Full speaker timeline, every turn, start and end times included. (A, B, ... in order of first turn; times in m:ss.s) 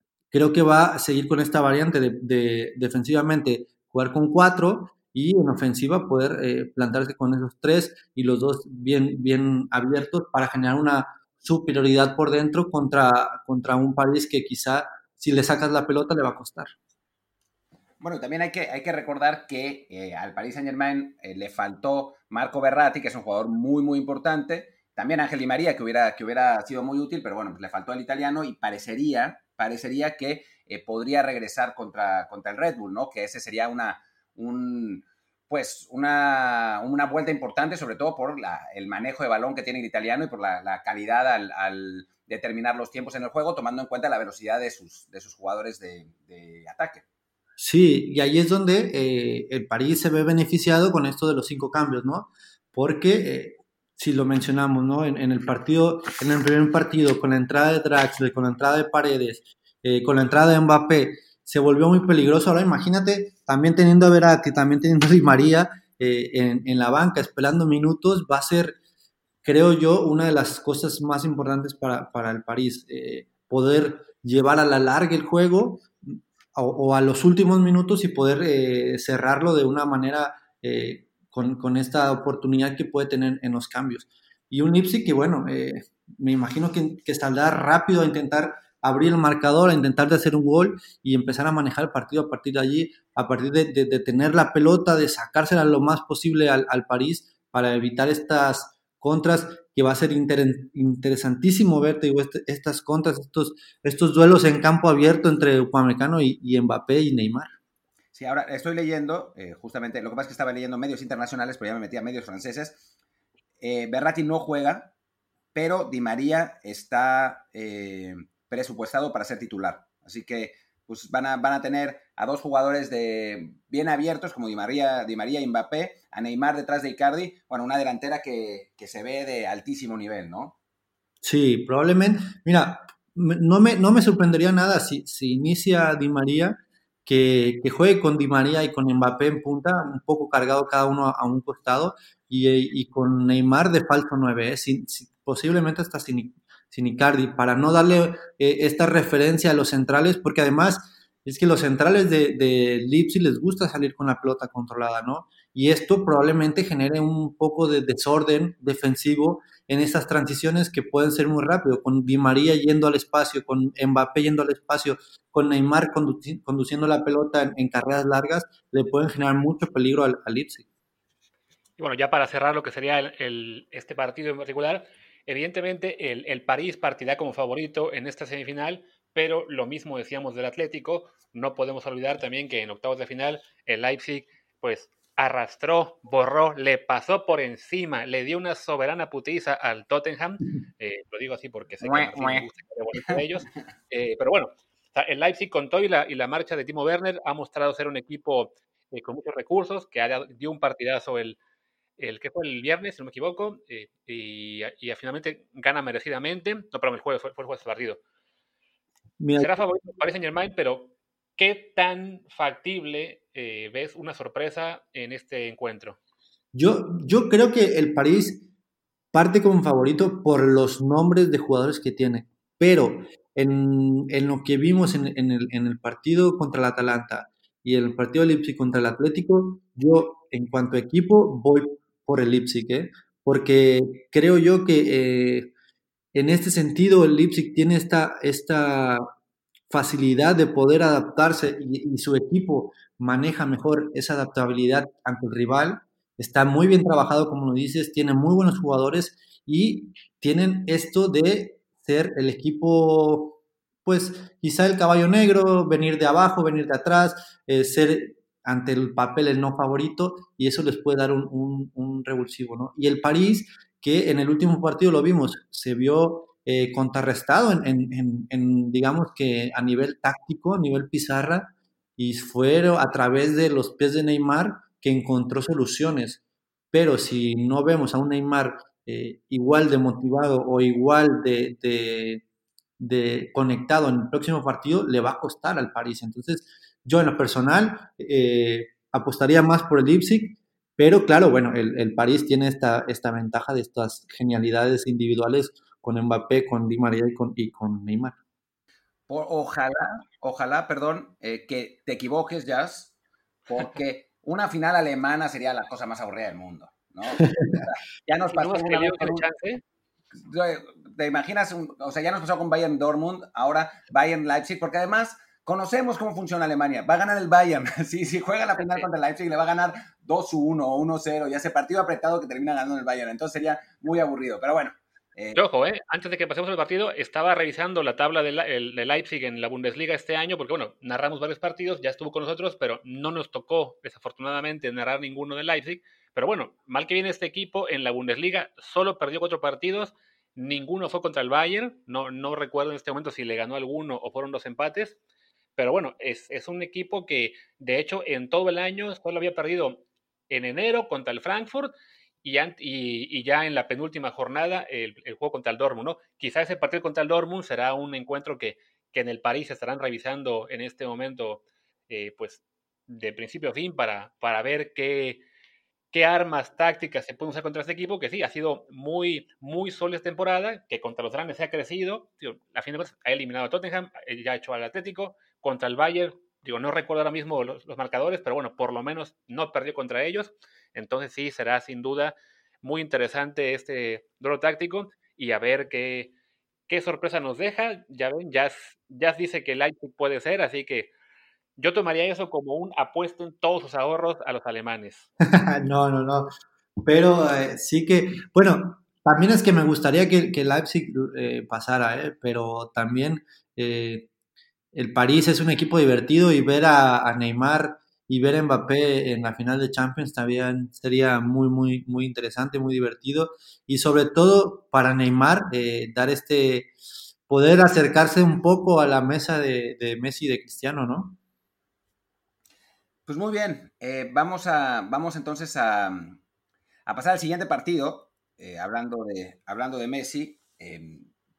0:00.3-0:16.7 A
0:18.0-0:47.0 B
0:47.6-1:08.8 A
1:09.4-1:47.5 A
1:48.1-1:52.8 B
1:53.6-1:54.9 B
1:55.5-2:10.5 B
2:11.2-2:50.6 A
2:51.8-3:21.4 C
3:11.8-3:13.2 B
3:22.0-3:28.0 C
3:29.2-3:29.6 A
3:29.4-3:36.0 C
3:36.5-3:38.5 A
3:39.1-3:55.5 A
3:56.1-3:59.0 A
3:59.7-4:36.2 A
4:36.7-4:42.2 A
4:42.8-4:58.2 A
4:59.1-5:02.9 B
5:03.5-5:09.2 B
5:07.2-5:07.4 A
5:08.3-5:09.6 C
5:10.2-5:25.4 B
5:25.4-5:45.0 C
5:45.6-5:51.7 C
5:52.2-6:05.2 C
6:05.9-6:26.1 C
6:26.7-6:30.9 C
6:31.6-6:35.1 C
6:35.3-6:36.3 A
6:36.8-6:44.1 A
6:44.7-6:56.7 A
6:57.3-7:01.2 A
7:03.1-7:06.2 B
7:06.8-7:11.1 B